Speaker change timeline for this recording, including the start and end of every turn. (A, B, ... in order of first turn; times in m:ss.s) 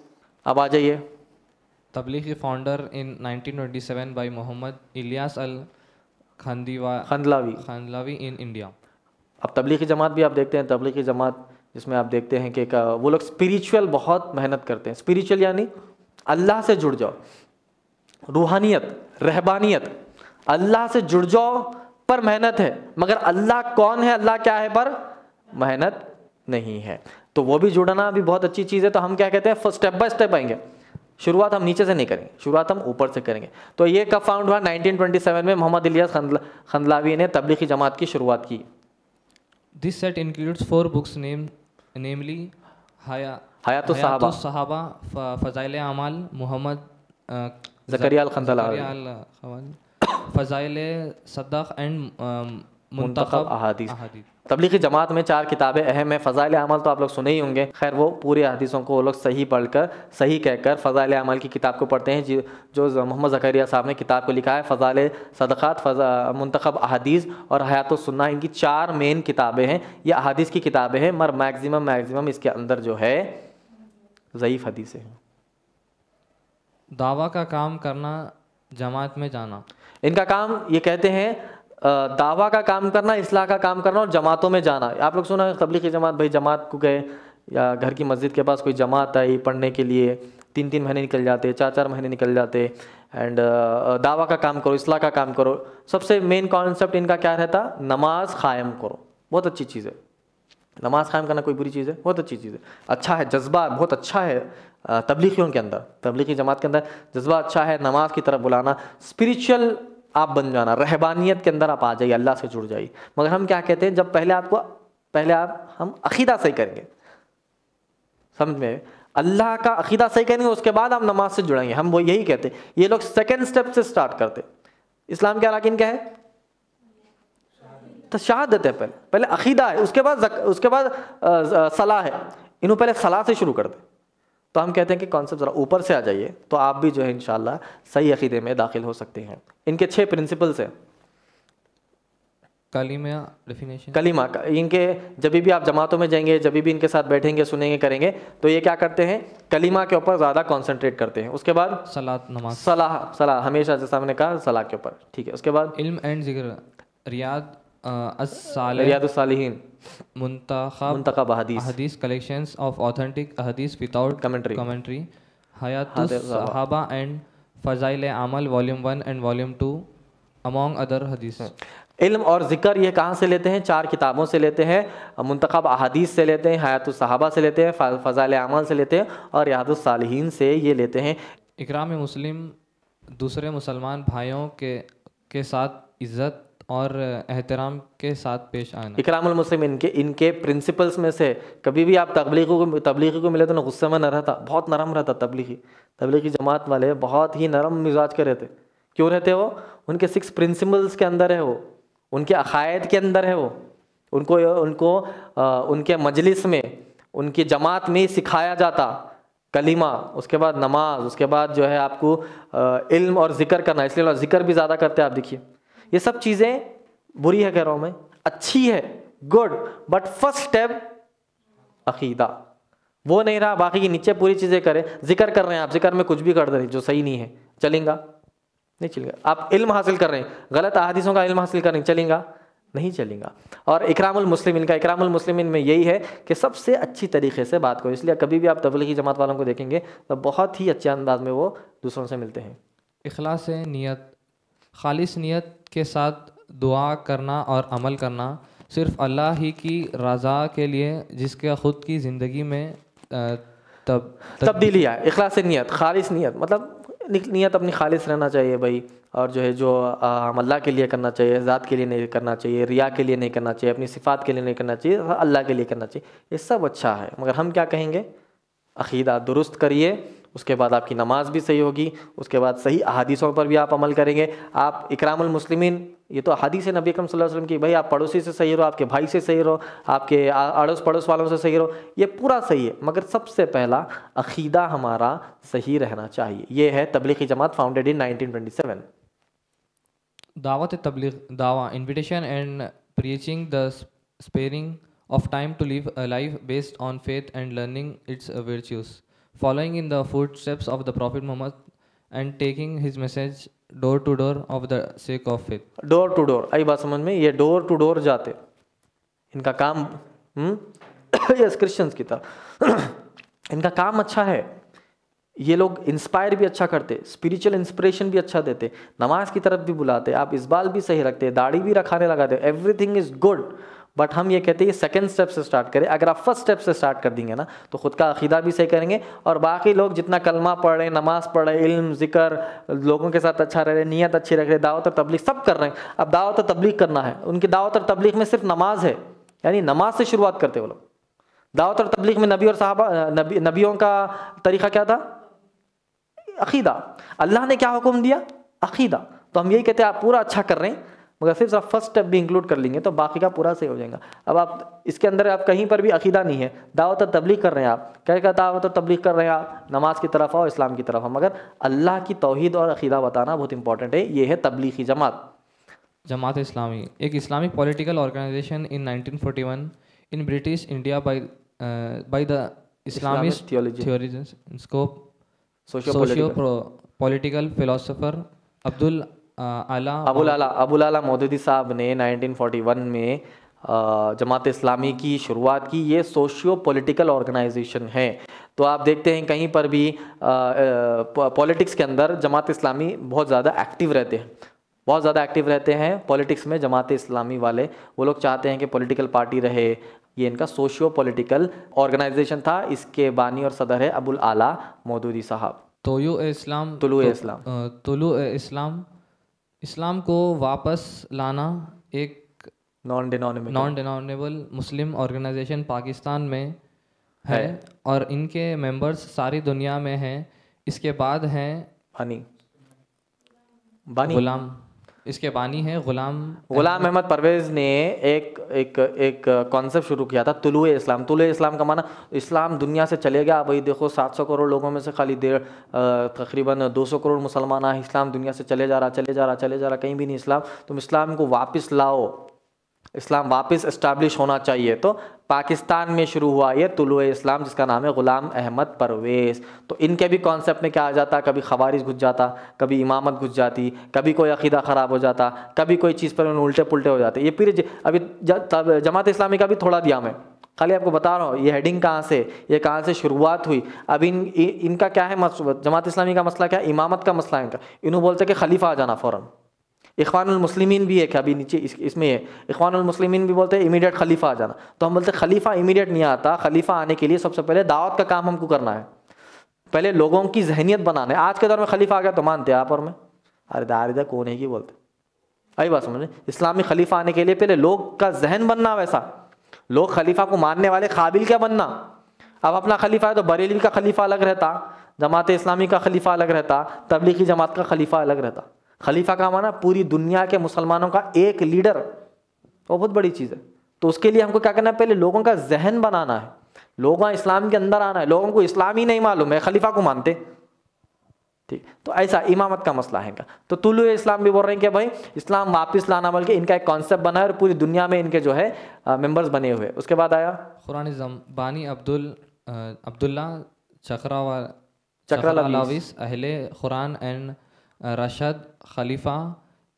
0:00.4-0:01.0 A
0:01.9-0:05.7 B
0:06.4-0:08.7 B
0:07.0-0:07.6 A
0:09.4-0:15.7 A
0:16.3-0:17.2 A
0:18.3-0:19.9 A
0:20.5-0:25.0 A
0:25.5-0:30.6 A
0:31.2-0:38.6 A
0:39.8-0:54.3 B
0:43.6-0:44.4 A
0:47.9-0:48.9 A
0:53.0-1:13.4 A
1:14.3-1:15.2 A
1:16.9-1:19.6 B
1:20.0-1:40.0 A
1:40.8-1:56.9 A
1:58.4-2:04.4 A
2:05.1-2:06.1 A
2:08.1-2:13.8 A
2:14.5-2:20.7 A
2:22.7-2:24.0 B
2:23.9-2:31.9 A
2:31.9-2:32.7 B
2:32.5-2:35.8 A
2:35.7-2:39.0 B
2:38.7-2:39.6 A
2:40.1-2:49.9 B
2:40.9-2:41.7 A
2:44.2-2:44.6 A
2:45.9-2:46.6 A
2:50.4-2:51.5 B
2:52.0-3:01.2 A
3:01.6-3:02.6 B
3:03.1-3:09.0 B
3:09.0-3:23.6 A
3:24.1-3:35.4 A
3:35.9-3:40.9 A
3:41.8-3:42.4 A
3:43.0-3:48.0 A
3:48.8-4:02.6 A
4:03.0-4:04.1 B
4:04.7-4:14.8 B
4:14.4-4:28.1 A
4:28.8-4:48.8 A
4:50.4-5:01.6 B
5:02.1-5:05.6 B
5:05.8-5:08.4 A
5:09.3-5:13.0 A
5:13.5-5:14.5 A
5:15.4-5:40.8 A
5:41.5-5:45.0 A
5:46.4-6:05.3 A
6:06.0-6:15.0 B
6:12.9-6:13.9 A
6:15.7-6:16.4 A
6:15.8-6:20.4 B
6:20.0-6:34.3 A
6:34.8-6:45.6 A
6:45.8-6:48.8 B
6:46.8-6:47.4 A
6:49.6-6:52.5 B
6:52.8-6:53.7 A
6:53.5-6:56.6 B
6:57.2-7:01.7 B
6:57.3-6:57.5 A
7:02.0-7:02.2 A
7:03.9-7:04.2 A
7:04.0-7:06.9 B
7:06.5-7:22.2 A
7:23.0-7:49.3 A
7:50.0-7:58.9 A
7:59.7-8:02.9 A
8:03.5-8:04.7 A
8:05.6-8:09.0 A
8:09.7-8:11.8 A
8:12.4-8:21.8 A
8:22.7-8:30.2 A
8:31.5-8:40.5 A
8:40.6-8:44.6 B
8:45.1-8:45.8 A
8:45.1-8:49.4 B